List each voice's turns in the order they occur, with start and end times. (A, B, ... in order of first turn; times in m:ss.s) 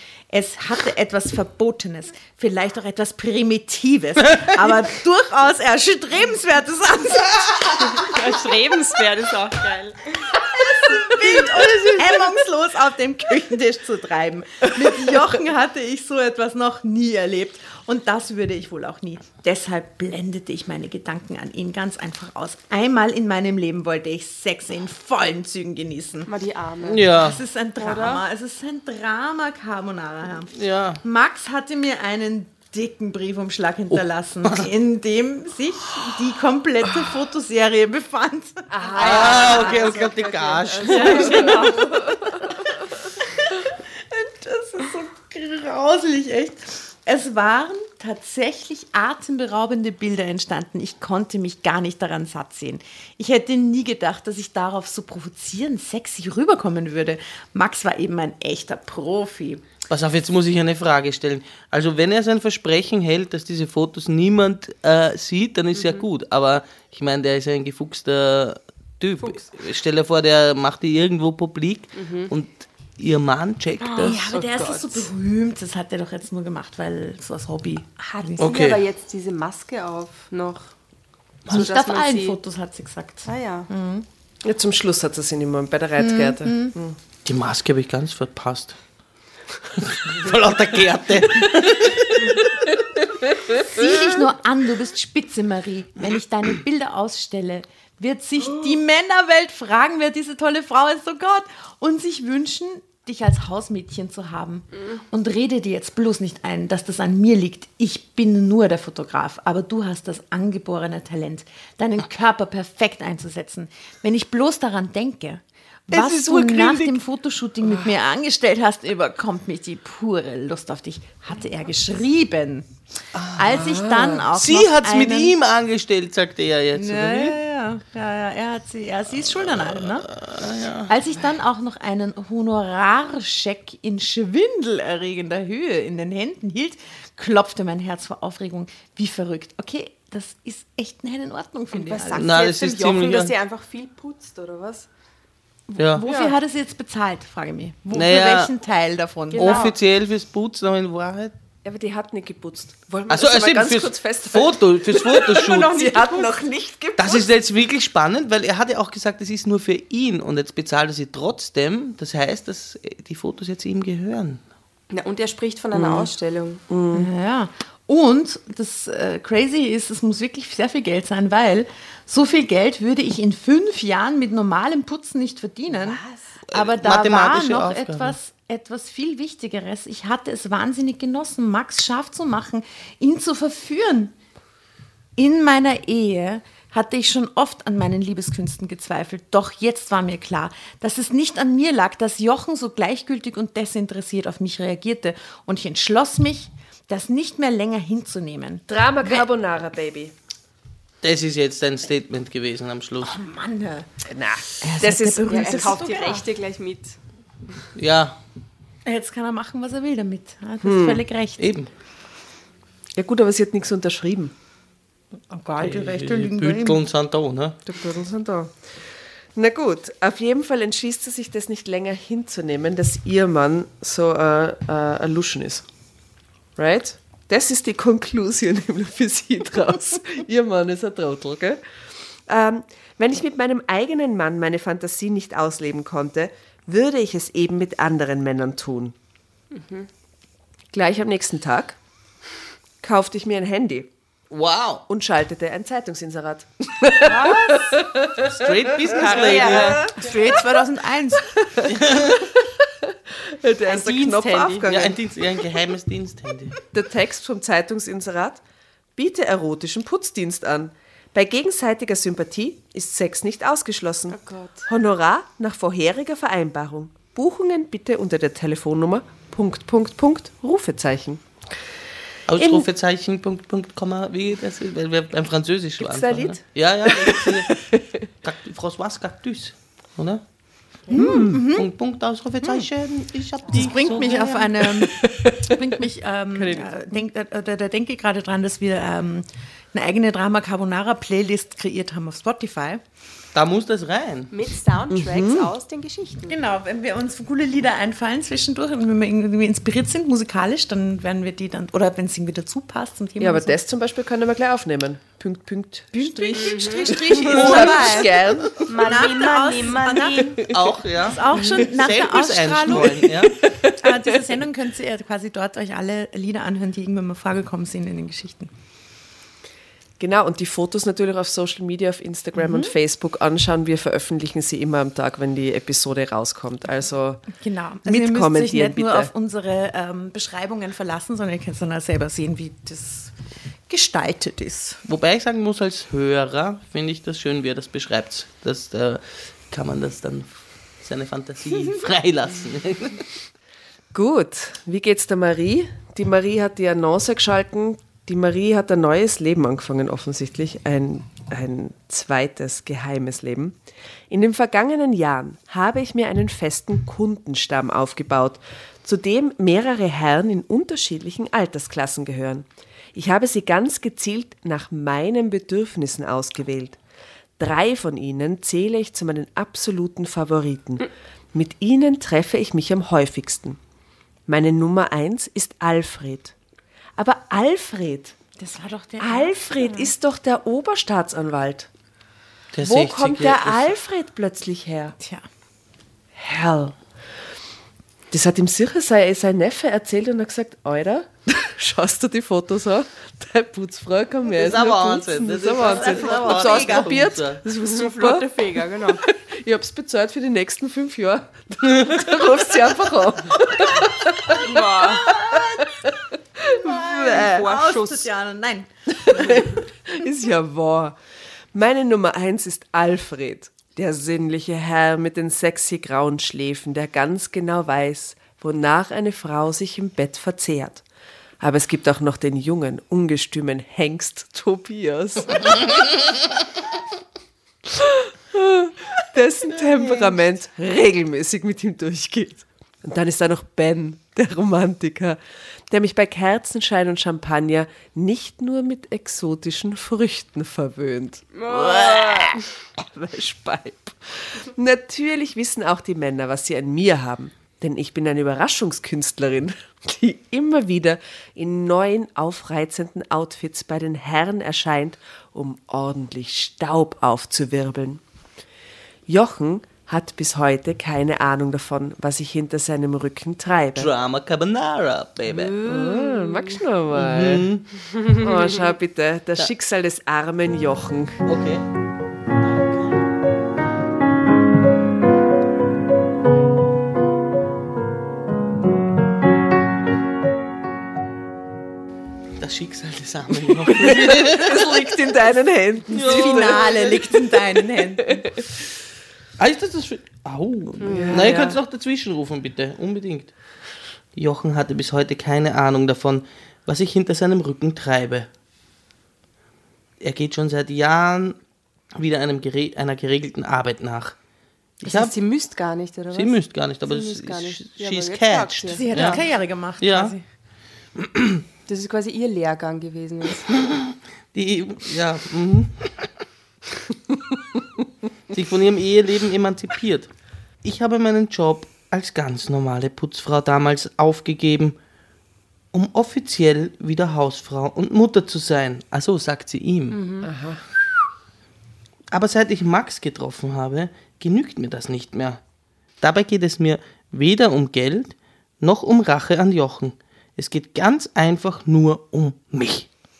0:00.3-0:08.1 A
0:07.8-0:10.4 B
0:10.5-0:26.3 A
0:11.2-0:12.3 C
0:26.3-0:27.1 B
0:26.8-0:27.4 C
0:27.2-0:38.8 A
0:27.8-0:28.2 B
0:30.5-0:31.0 C
0:33.9-0:34.7 C
0:38.7-0:42.1 D
0:38.8-0:41.9 B
0:39.0-0:41.6 C
0:40.9-0:42.1 A
0:44.1-0:59.6 A
0:59.9-1:14.2 C
1:05.8-1:06.0 B
1:09.2-1:09.5 B
1:12.0-1:12.3 B
1:13.9-1:18.5 A
1:14.0-1:15.1 B
1:18.2-1:20.7 B
1:18.4-1:18.8 C
1:21.5-1:22.4 B
1:21.5-1:24.0 A
1:23.2-1:23.7 B
1:24.4-1:27.0 D
1:26.0-1:26.8 A
1:27.2-1:28.8 C
1:29.7-1:32.6 C
1:33.5-2:02.7 A
1:55.9-1:56.9 C
2:03.1-2:03.6 C
2:03.3-2:05.4 A
2:03.5-2:04.3 D
2:04.4-2:07.4 C
2:06.7-2:10.1 A
2:09.2-2:10.9 C
2:10.9-2:22.3 A
2:21.7-2:24.9 B
2:22.2-2:23.3 C
2:25.7-2:29.7 A
2:25.8-2:26.1 C
2:26.0-2:26.4 B
2:27.9-2:28.5 C
2:29.3-2:29.8 B
2:29.4-2:31.3 C
2:31.6-2:37.3 D
2:33.1-2:35.9 C
2:35.1-2:36.3 B
2:37.0-2:44.4 C
2:44.9-2:46.6 B
2:45.8-2:46.1 D
2:46.7-2:47.1 D
2:46.9-3:04.1 A
2:55.7-2:56.3 B
2:56.5-2:58.2 C
3:05.2-3:19.3 A
3:18.7-3:20.1 D
3:21.0-3:23.2 C
3:23.1-3:23.9 A
3:24.1-3:25.8 D
3:24.6-3:26.2 A
3:25.3-3:27.0 B
3:27.8-3:28.2 C
3:28.8-3:31.6 A
3:30.6-3:31.0 D
3:31.4-3:31.7 C
3:33.0-3:34.3 D
3:35.3-3:36.8 A
3:35.6-3:37.6 C
3:37.7-3:38.8 D
3:39.4-3:45.7 D
3:46.6-3:51.6 D
3:52.3-3:59.0 D
3:59.6-3:59.9 B
4:00.7-4:01.8 D
4:02.8-4:03.9 D
4:04.3-4:04.8 C
4:04.9-4:09.9 D
4:07.0-4:07.8 B
4:08.2-4:09.8 C
4:08.9-4:09.9 B
4:10.0-4:11.7 A
4:11.5-4:15.0 D
4:11.7-4:12.2 C
4:13.6-4:14.7 B
4:14.6-4:16.6 C
4:16.7-4:18.4 D
4:19.0-4:31.3 D
4:24.1-4:24.7 B
4:32.3-4:37.6 C
4:32.4-4:32.7 D
4:35.8-4:37.9 D
4:38.2-4:40.2 C
4:40.9-4:41.7 A
4:40.9-4:41.4 D
4:41.2-4:44.4 C
4:43.5-4:52.8 A
4:44.1-4:45.6 D
4:46.4-4:46.7 D
4:53.3-4:54.3 C
4:54.3-4:56.4 B
4:54.9-4:55.5 D
4:56.3-5:03.6 A
5:03.2-5:08.6 D
5:05.9-5:13.2 A
5:06.3-5:07.8 B
5:07.2-5:08.0 C
5:08.7-5:10.6 B
5:10.5-5:13.4 C
5:11.3-5:11.6 D
5:12.8-5:13.9 D
5:13.8-5:18.5 A
5:20.0-5:27.3 D
5:22.4-5:22.8 A
5:27.3-5:33.1 A
5:27.9-5:29.1 D
5:33.7-5:34.8 A
5:34.8-5:43.1 C
5:43.9-5:53.6 D
5:54.1-6:06.8 D
6:07.4-6:13.6 D
6:14.3-6:16.3 D
6:17.0-6:18.2 D
6:18.4-6:19.9 A
6:19.0-6:21.7 D
6:22.5-6:23.8 C
6:22.6-6:25.0 D
6:25.0-6:25.2 A
6:26.2-6:26.8 D
6:28.1-6:47.2 D
6:34.3-6:37.4 C
6:35.6-6:37.1 A
6:37.6-6:39.0 B
6:44.3-6:45.2 B
6:46.6-6:48.1 B
6:46.6-6:48.7 A
6:49.0-6:51.0 D
6:51.5-7:00.8 D
7:01.4-7:05.6 D
7:07.7-7:15.2 D
7:09.6-7:10.2 C
7:15.7-7:38.0 D
7:21.3-7:22.4 B
7:39.1-7:43.9 D
7:43.8-7:45.6 C
7:45.3-7:46.6 B
7:45.6-7:47.5 D
7:46.9-7:47.7 C
7:48.0-7:48.4 B
7:48.2-7:51.2 D
7:51.2-7:51.6 C
7:52.4-7:53.0 C
8:02.4-8:04.8 C
8:03.6-8:06.7 D
8:05.9-8:07.2 C
8:06.0-8:08.3 A
8:09.4-8:13.3 C
8:10.8-8:11.5 B
8:10.8-8:11.6 D
8:14.2-8:18.3 C
8:20.0-8:21.4 C
8:22.0-8:24.2 C
8:24.8-8:25.1 C
8:24.8-8:29.2 B
8:26.1-8:29.2 C
8:28.7-8:30.2 A
8:29.8-8:30.1 C
8:31.0-8:31.4 C
8:31.7-8:33.5 B
8:33.6-8:36.1 C
8:38.3-8:40.1 C
8:40.6-8:44.8 C
8:45.7-8:50.0 C
8:49.9-8:50.3 B
8:50.2-8:50.6 D
8:52.1-8:55.4 C
8:56.0-9:02.9 C